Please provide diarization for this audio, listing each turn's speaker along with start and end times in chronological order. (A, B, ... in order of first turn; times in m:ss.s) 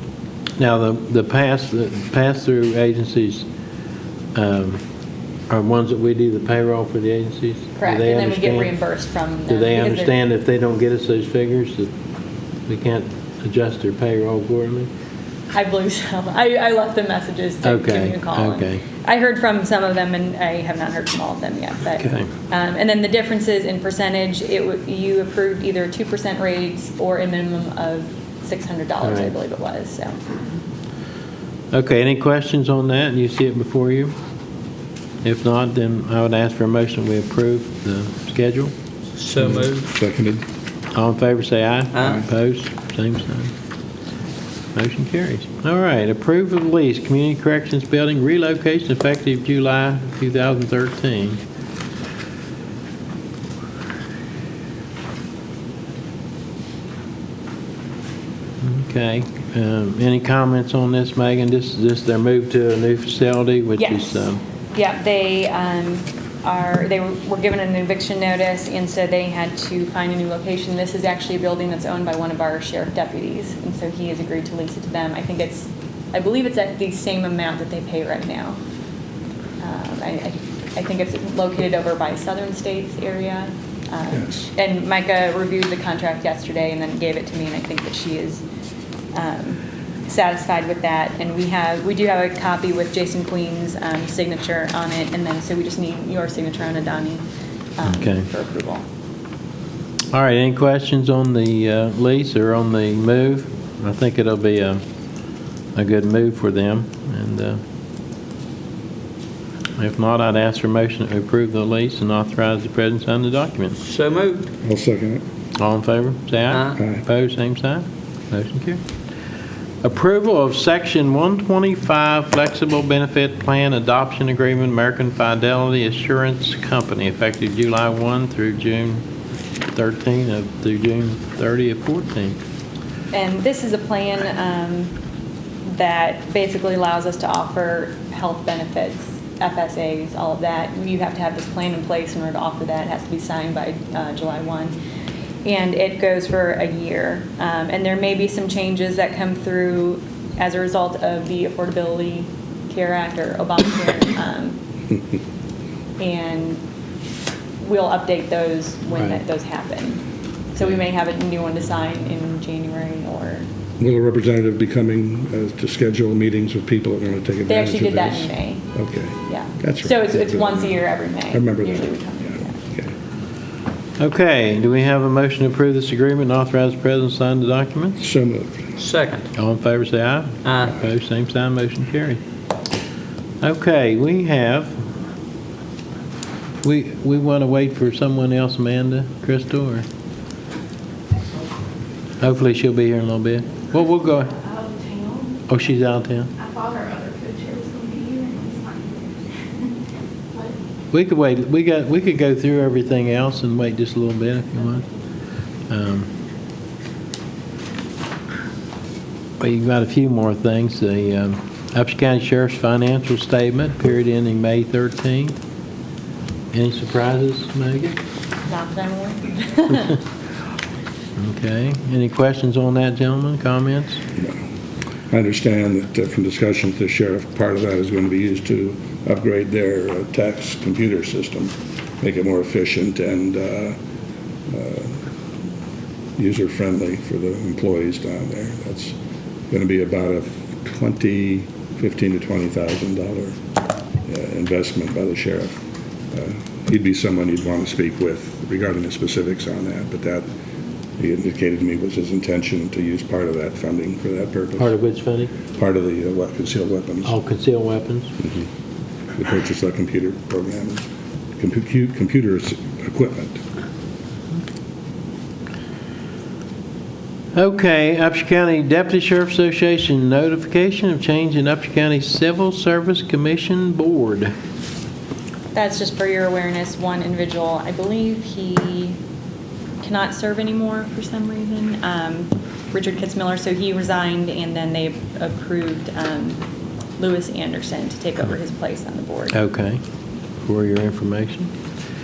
0:00.6-0:03.4 A
0:04.4-0:04.8 A
0:05.5-0:08.7 A
0:07.8-0:10.2 B
0:09.5-0:11.9 A
0:12.7-0:14.9 A
0:15.5-0:30.2 B
0:17.6-0:18.8 A
0:22.0-0:22.3 A
0:29.0-0:29.4 A
0:31.7-0:34.2 A
0:35.2-0:38.7 A
0:39.2-0:39.9 C
0:39.5-0:40.4 D
0:40.9-0:43.5 A
0:41.9-0:42.2 C
0:44.8-0:51.4 A
0:58.6-1:04.4 A
1:03.8-1:18.6 B
1:19.6-1:28.4 B
1:29.1-1:37.2 B
1:37.8-1:38.8 B
1:37.8-1:38.3 A
1:40.1-1:44.8 A
1:45.8-1:47.6 A
1:49.8-1:53.8 A
1:53.8-1:54.5 C
1:54.6-1:55.2 D
1:55.6-1:58.8 A
1:56.5-1:56.8 C
1:59.8-2:09.0 A
2:09.7-2:12.4 A
2:13.1-2:14.9 B
2:15.7-2:24.8 B
2:25.4-2:34.6 B
2:36.0-2:36.6 B
2:37.6-2:43.5 B
2:43.8-2:52.0 D
2:47.5-2:48.7 B
2:49.3-2:52.6 B
2:52.6-2:52.9 D
2:54.0-2:58.0 A
2:58.0-2:58.7 D
2:58.8-2:59.3 C
2:59.3-3:02.2 A
3:00.4-3:00.7 C
3:03.4-3:04.7 A
3:06.6-3:09.8 A
3:12.2-3:14.4 A
3:14.5-3:15.3 E
3:15.5-3:16.3 A
3:16.4-3:19.0 E
3:20.9-3:24.9 A
3:25.7-3:26.1 A
3:29.4-3:35.4 A
3:36.5-3:38.0 A
3:38.5-3:40.0 B
3:41.2-3:44.0 A
3:45.1-3:53.8 D
3:54.5-3:55.0 D
3:56.2-3:59.0 D
3:59.5-4:03.4 D
4:04.1-4:05.6 D
4:06.1-4:10.2 D
4:11.0-4:14.7 D
4:14.6-4:15.3 A
4:15.5-4:17.1 D
4:17.0-4:18.1 A
4:19.1-4:20.8 D
4:21.4-4:23.4 D
4:27.3-4:34.3 A
4:35.6-4:39.0 B
4:39.8-4:46.4 B
4:47.0-4:49.4 B
4:49.3-4:49.8 A
4:50.4-4:51.5 A